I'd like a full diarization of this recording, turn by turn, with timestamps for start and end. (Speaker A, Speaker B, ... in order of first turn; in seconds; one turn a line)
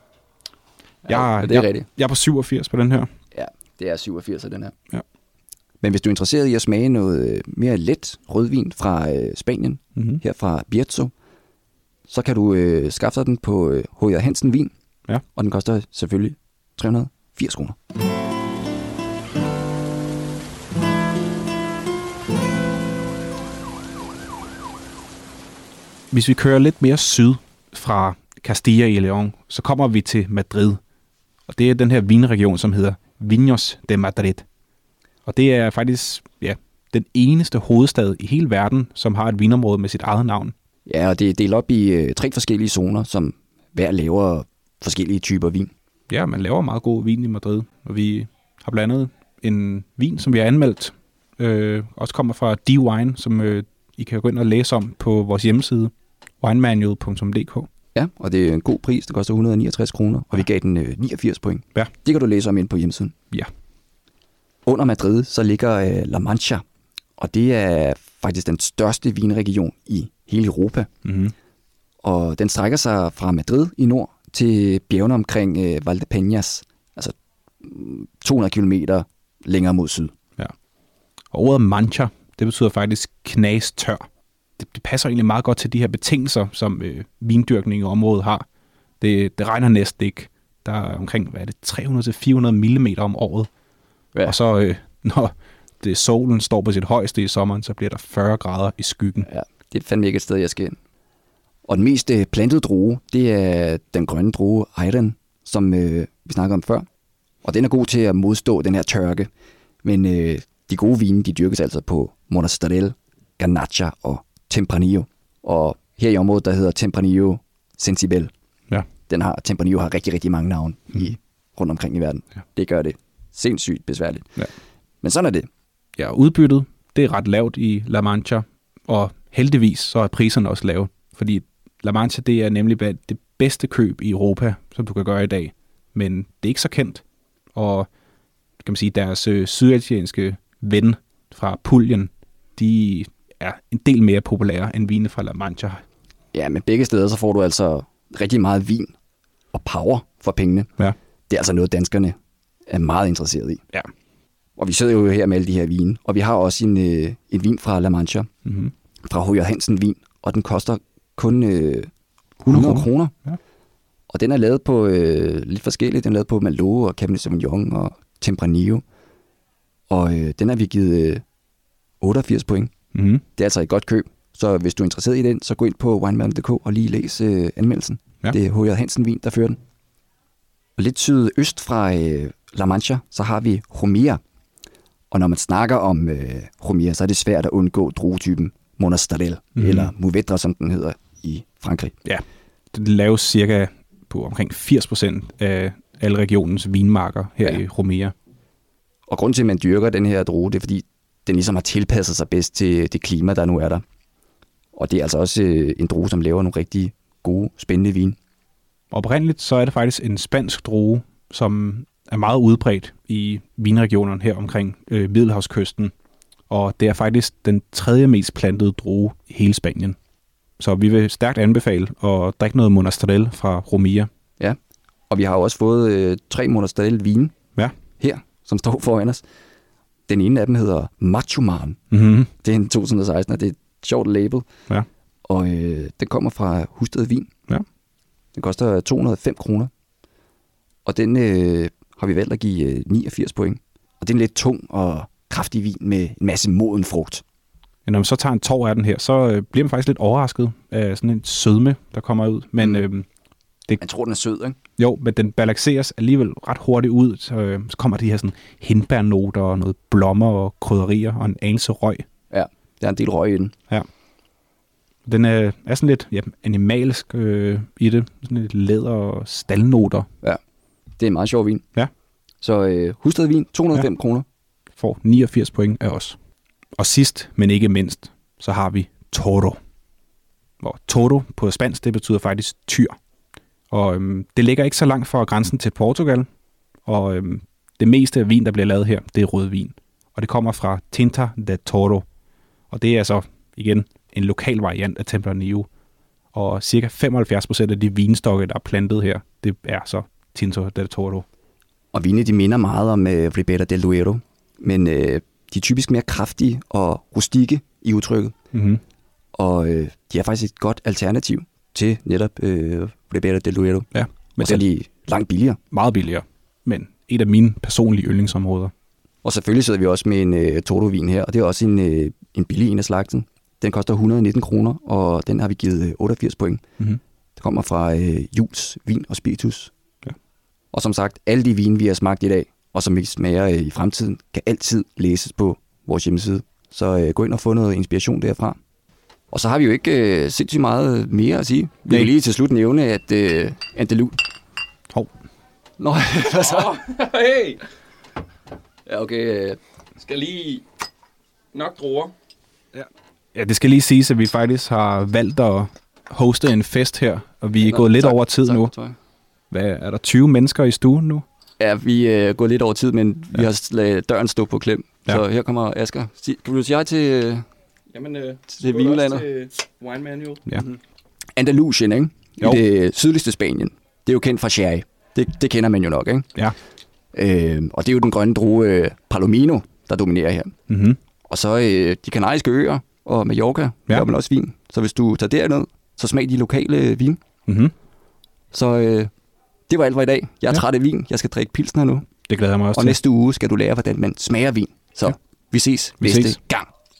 Speaker A: 1.1-3.1
Speaker B: 1.1-1.9
Speaker B: 3.3-4.8
Speaker B: 5.8-11.1
Speaker A: 10.0-10.2
Speaker B: 12.1-14.7
Speaker B: 15.3-17.8
Speaker A: 26.1-30.8
Speaker A: 31.5-34.5
Speaker A: 35.3-40.5
Speaker B: 40.9-45.7
Speaker A: 46.1-57.7
Speaker B: 57.9-63.1
Speaker B: 64.7-66.6
Speaker B: 67.2-70.9
Speaker A: 71.0-71.3
Speaker B: 72.0-80.1
Speaker A: 81.3-84.1
Speaker A: 84.6-88.5
Speaker A: 89.0-93.5
Speaker A: 94.2-99.3
Speaker B: 99.3-100.8
Speaker B: 101.7-106.9
Speaker B: 107.4-109.3
Speaker B: 109.8-118.3
Speaker B: 119.1-124.4
Speaker B: 125.0-125.5
Speaker A: 126.0-137.9
Speaker A: 138.6-145.8
Speaker B: 146.3-148.9
Speaker B: 149.5-150.7
Speaker B: 151.3-152.2
Speaker B: 152.7-153.6
Speaker B: 154.6-158.3
Speaker A: 158.4-158.7
Speaker B: 159.1-161.9
Speaker B: 162.4-163.1
Speaker A: 162.4-163.4
Speaker B: 164.1-168.8
Speaker B: 169.9-171.2
Speaker B: 172.0-172.7
Speaker A: 172.9-173.2
Speaker B: 173.4-179.6
Speaker B: 180.8-184.2
Speaker B: 185.1-192.0
Speaker A: 189.6-189.9
Speaker A: 192.1-198.2
Speaker B: 199.1-203.8
Speaker B: 204.8-208.2
Speaker A: 208.9-215.9
Speaker A: 216.5-220.0
Speaker A: 220.6-224.1
Speaker B: 225.1-227.4
Speaker B: 228.0-229.2
Speaker B: 230.1-231.8
Speaker A: 231.9-232.3
Speaker B: 232.4-234.5
Speaker B: 235.3-237.3
Speaker B: 238.4-239.7
Speaker B: 240.8-247.2
Speaker A: 247.8-253.1
Speaker B: 253.8-254.6
Speaker A: 254.8-262.1
Speaker B: 262.3-263.6
Speaker A: 265.1-270.1
Speaker B: 271.0-271.6
Speaker B: 272.4-274.3
Speaker A: 274.8-276.2
Speaker A: 276.8-279.6
Speaker A: 280.6-283.0
Speaker A: 283.7-286.3
Speaker A: 286.9-292.1
Speaker A: 292.7-295.7
Speaker A: 296.3-301.3
Speaker B: 301.9-308.4
Speaker A: 308.5-308.8
Speaker B: 309.4-313.9
Speaker A: 313.9-314.6
Speaker B: 314.4-315.6
Speaker A: 315.7-318.7
Speaker B: 319.2-326.6
Speaker B: 327.4-329.7
Speaker B: 330.7-338.6
Speaker B: 339.3-344.2
Speaker B: 345.8-346.8
Speaker C: 346.2-347.6
Speaker B: 348.9-349.6
Speaker C: 350.1-350.6
Speaker C: 351.5-352.1
Speaker A: 352.7-358.7
Speaker B: 357.6-359.0
Speaker A: 359.5-361.2
Speaker B: 361.6-367.4
Speaker C: 367.9-370.7
Speaker B: 368.5-369.3
Speaker B: 371.4-376.3
Speaker B: 377.1-380.6
Speaker A: 380.7-381.0
Speaker B: 381.3-387.2
Speaker A: 387.5-387.8
Speaker B: 388.5-389.1
Speaker B: 389.7-392.1
Speaker A: 392.3-393.0
Speaker B: 392.7-396.7
Speaker A: 396.0-396.4